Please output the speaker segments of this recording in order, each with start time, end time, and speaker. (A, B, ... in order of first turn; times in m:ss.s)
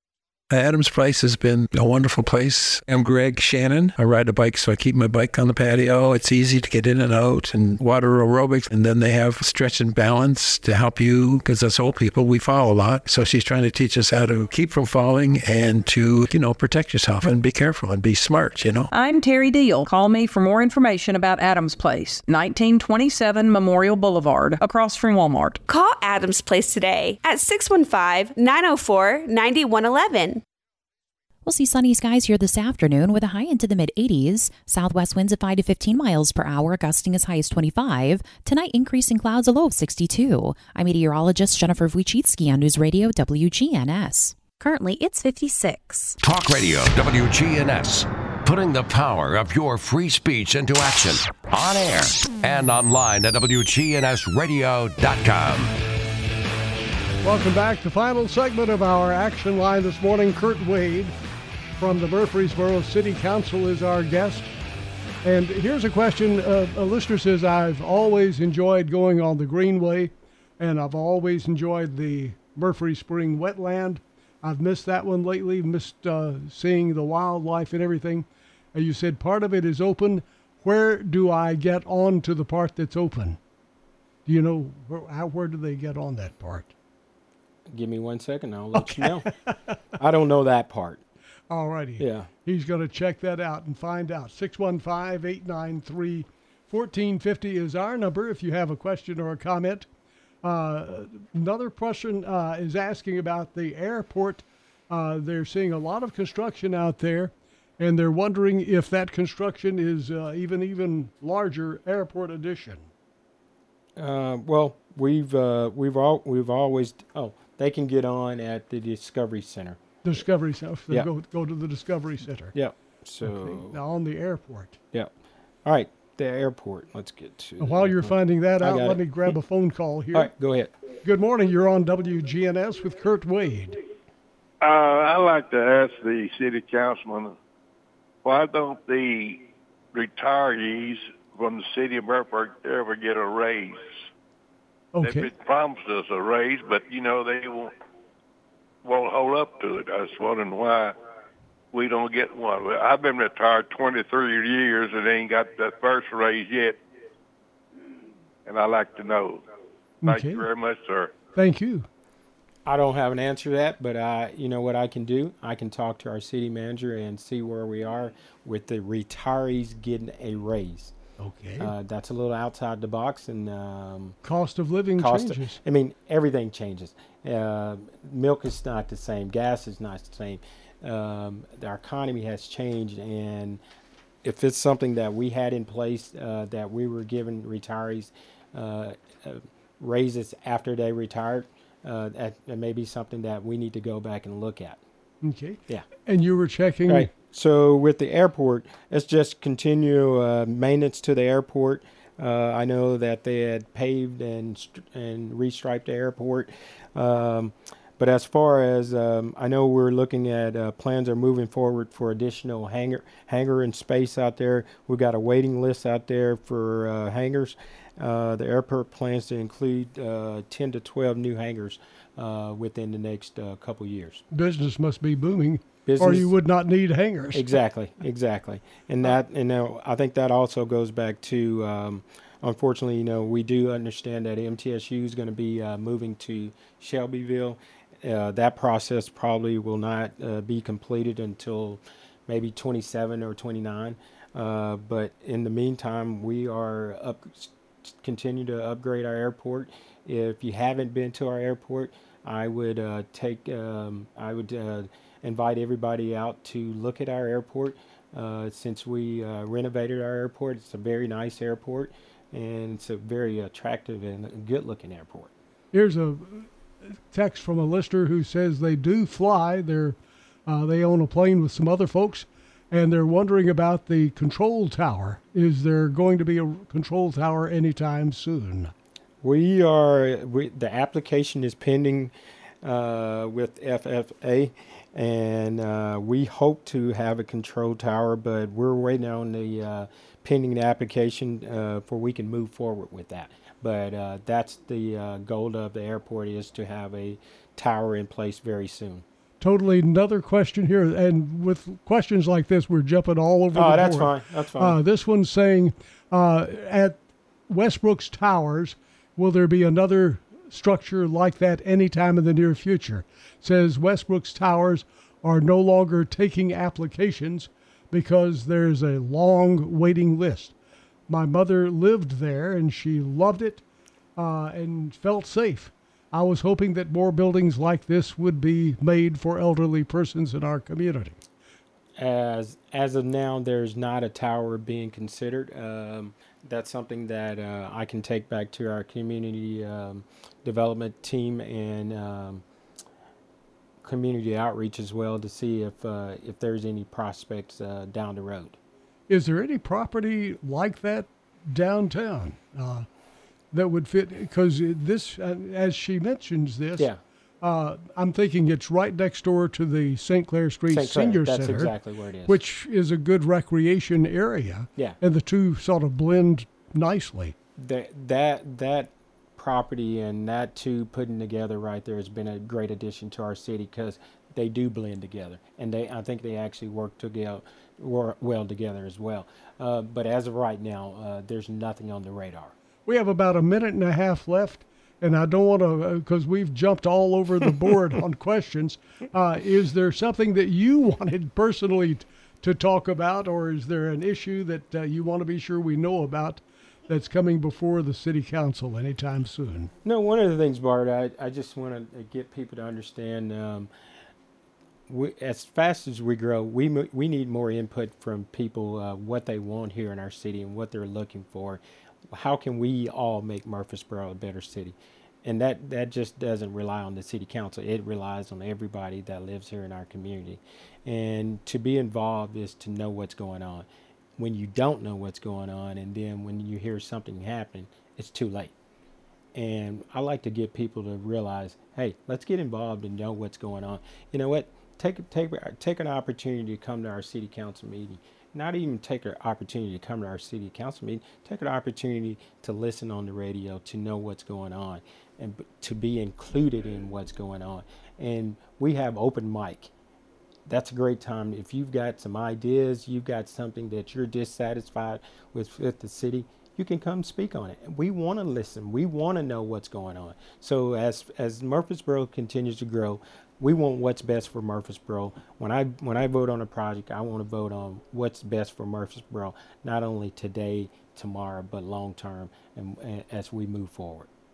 0:00.5-0:18.9 A
0:18.9-0:25.6 B
0:25.7-0:30.4 C
0:31.4-0:46.2 D
0:46.2-0:55.7 E
0:57.2-1:01.2 F
1:01.8-1:04.5 F
1:05.2-1:23.4 F
1:24.3-1:26.7 F
1:27.7-1:29.3 G
1:28.8-1:29.8 F
1:30.0-1:31.0 G
1:31.5-1:39.9 F
1:32.0-1:32.3 G
1:40.4-1:52.9 F
1:54.0-1:59.8 G
2:00.0-2:02.5 F
2:02.5-2:03.8 G
2:03.2-2:04.8 F
2:05.6-2:09.0 G
2:07.6-2:10.3 F
2:10.1-2:10.7 G
2:11.0-2:13.8 F
2:14.6-2:17.4 H
2:18.2-2:23.9 H
2:24.9-2:25.3 F
2:25.0-2:27.7 H
2:28.8-2:31.0 H
2:31.7-2:36.8 H
2:38.5-2:39.4 H
2:40.0-2:40.5 F
2:40.0-2:41.2 H
2:41.4-2:41.9 F
2:42.7-2:50.9 G
2:51.2-2:51.7 F
2:51.6-2:54.2 G
2:54.2-2:55.6 F
2:55.0-3:03.6 G
3:04.2-3:14.8 G
3:15.2-3:17.1 F
3:16.9-3:44.2 G
3:44.3-3:47.6 F
3:45.9-3:46.3 G
3:47.3-4:25.3 G
4:25.7-4:26.5 F
4:27.1-4:38.7 F
4:39.2-4:59.0 G
4:59.4-5:20.5 F
5:03.5-5:04.8 G
5:21.1-5:23.6 F
5:24.2-5:31.2 F
5:32.0-5:42.4 G
5:43.8-5:48.6 G
5:49.1-5:52.9 F
5:53.5-5:56.9 F
5:57.4-6:01.7 F
6:00.7-6:02.4 G
6:02.3-6:07.4 F
6:07.6-6:22.6 G
6:22.9-6:39.7 F
6:39.8-6:43.7 G
6:44.9-7:08.5 G
7:09.4-7:29.7 G
7:30.5-7:54.1 G